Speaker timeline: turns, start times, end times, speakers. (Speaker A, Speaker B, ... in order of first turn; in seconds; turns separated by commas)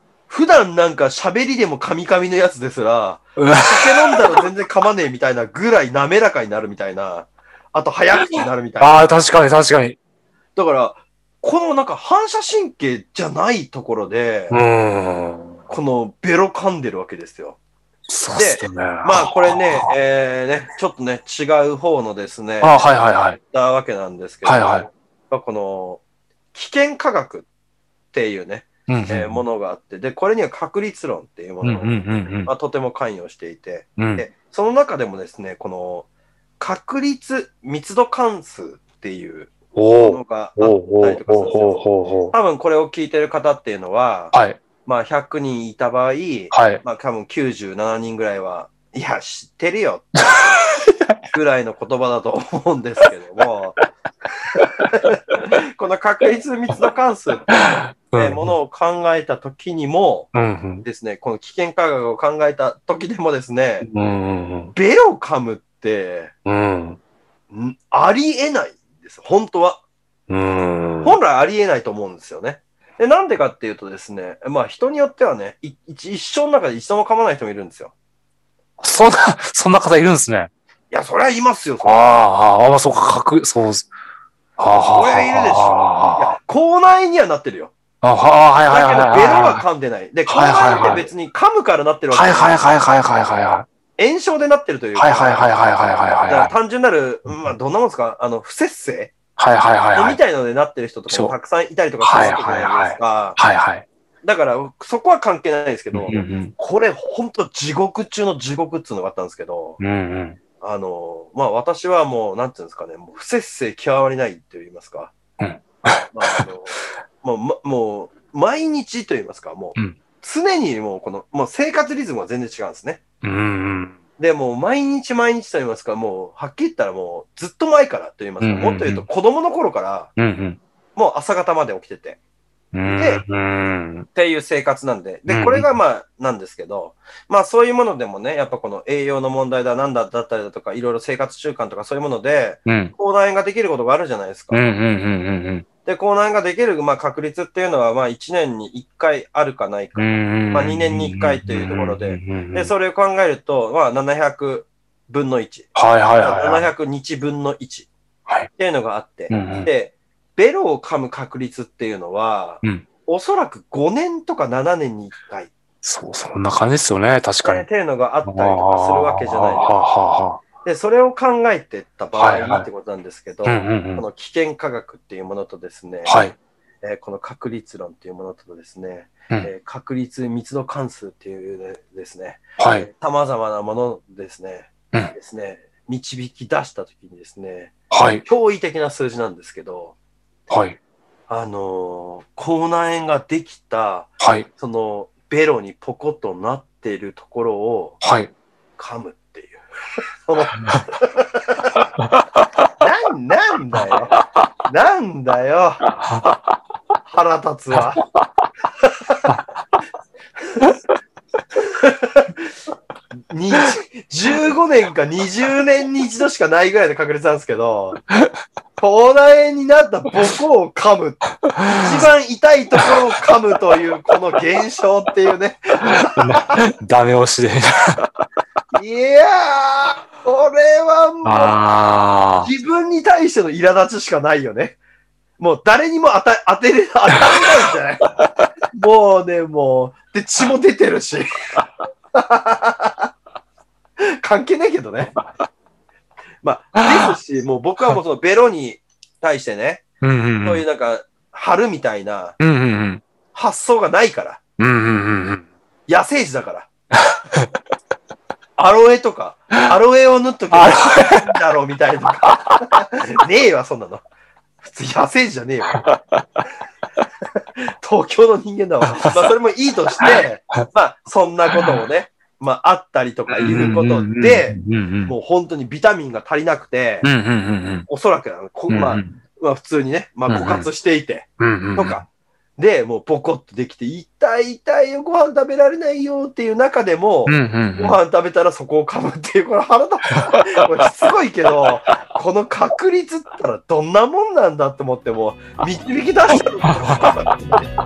Speaker A: 0.3-9.2, Speaker B: 3.4-4.3, Speaker B: 8.2-10.0, Speaker A: 10.6-14.6, Speaker B: 14.5-15.6, Speaker A: 15.7-17.6, Speaker B: 18.1-19.9, Speaker A: 18.3-22.9, Speaker B: 22.6-23.4, Speaker A: 23.4-26.0, Speaker B: 24.4-24.9, Speaker A: 26.5-27.5, Speaker A: 28.1-36.1, Speaker B: 28.9-29.4, Speaker B: 31.6-32.5, Speaker B: 34.0-34.2, Speaker A: 36.6-50.6, Speaker B: 39.7-42.3, Speaker B: 44.3-44.6, Speaker B: 46.5-46.8, Speaker B: 50.3-51.1, Speaker A: 51.3-53.8, Speaker A: 54.6-57.5, Speaker B: 57.5-58.5, Speaker A: 58.1-63.9, Speaker B: 60.3-60.8, Speaker B: 63.8-64.7, Speaker A: 64.7-66.3, Speaker B: 66.5-67.0, Speaker A: 67.5-69.8, Speaker B: 70.3-71.2, Speaker A: 71.0-77.9, Speaker B: 78.8-80.5, Speaker A: 80.9-82.2, Speaker B: 81.8-83.9, Speaker B: 84.6-86.4, Speaker A: 84.7-87.7, Speaker B: 88.0-89.6, Speaker A: 88.7-92.7, Speaker B: 90.3-91.0, Speaker B: 92.1-93.7, Speaker A: 94.0-95.5, Speaker B: 95.0-96.5, Speaker A: 96.3-99.1, Speaker B: 99.4-100.2, Speaker A: 99.9-103.4, Speaker B: 102.0-103.8, Speaker A: 104.2-109.8, Speaker B: 105.9-106.5, Speaker B: 109.8-110.4, Speaker A: 110.6-115.1, Speaker B: 115.4-116.4, Speaker A: 116.1-123.0, Speaker B: 123.2-124.0, Speaker A: 124.2-130.1, Speaker B: 128.4-129.1, Speaker B: 130.2-130.6, Speaker A: 130.9-132.2, Speaker B: 132.7-134.1, Speaker A: 132.8-133.2, Speaker A: 134.1-144.6, Speaker B: 135.3-135.7, Speaker B: 142.7-142.9, Speaker B: 144.5-145.6, Speaker A: 145.8-157.9, Speaker B: 149.9-152.7, Speaker B: 155.7-156.7, Speaker A: 158.6-165.5, Speaker B: 159.3-159.7, Speaker B: 165.8-167.7, Speaker A: 167.4-169.8, Speaker B: 168.2-170.4, Speaker A: 170.6-176.2, Speaker B: 172.2-172.7, Speaker B: 173.4-174.0, Speaker B: 176.1-176.3, Speaker A: 176.8-189.9, Speaker B: 182.6-182.9, Speaker B: 187.9-188.2, Speaker B: 190.5-190.8, Speaker A: 191.3-198.0, Speaker B: 194.2-194.5, Speaker B: 198.0-198.3, Speaker A: 198.8-199.6, Speaker A: 200.3-201.6, Speaker B: 200.5-200.8, Speaker B: 201.8-202.1, Speaker A: 202.8-204.1, Speaker A: 204.7-205.9, Speaker B: 206.0-206.3, Speaker A: 207.1-208.0, Speaker A: 211.8-212.4, Speaker A: 213.3-218.0, Speaker A: 218.8-226.5, Speaker B: 221.5-222.1, Speaker B: 226.1-228.1, Speaker A: 228.7-231.6, Speaker B: 231.2-232.5, Speaker A: 232.4-234.8, Speaker A: 235.4-238.1, Speaker A: 238.7-241.3, Speaker A: 242.1-243.1, Speaker A: 244.2-245.2, Speaker A: 246.4-249.8, Speaker B: 246.8-247.1, Speaker B: 250.0-250.6, Speaker A: 250.4-252.4, Speaker B: 252.4-253.0, Speaker A: 253.3-254.4, Speaker B: 254.6-255.4, Speaker A: 255.9-256.7, Speaker A: 258.6-264.0, Speaker B: 260.5-261.3, Speaker B: 262.3-262.6, Speaker A: 264.6-265.9, Speaker B: 265.7-266.2, Speaker A: 267.7-277.1, Speaker B: 273.3-275.1, Speaker B: 277.0-277.9, Speaker A: 277.9-282.0, Speaker B: 278.7-279.2, Speaker B: 280.3-280.7, Speaker B: 281.4-282.0, Speaker A: 282.6-297.7, Speaker B: 287.2-288.0, Speaker B: 290.1-290.4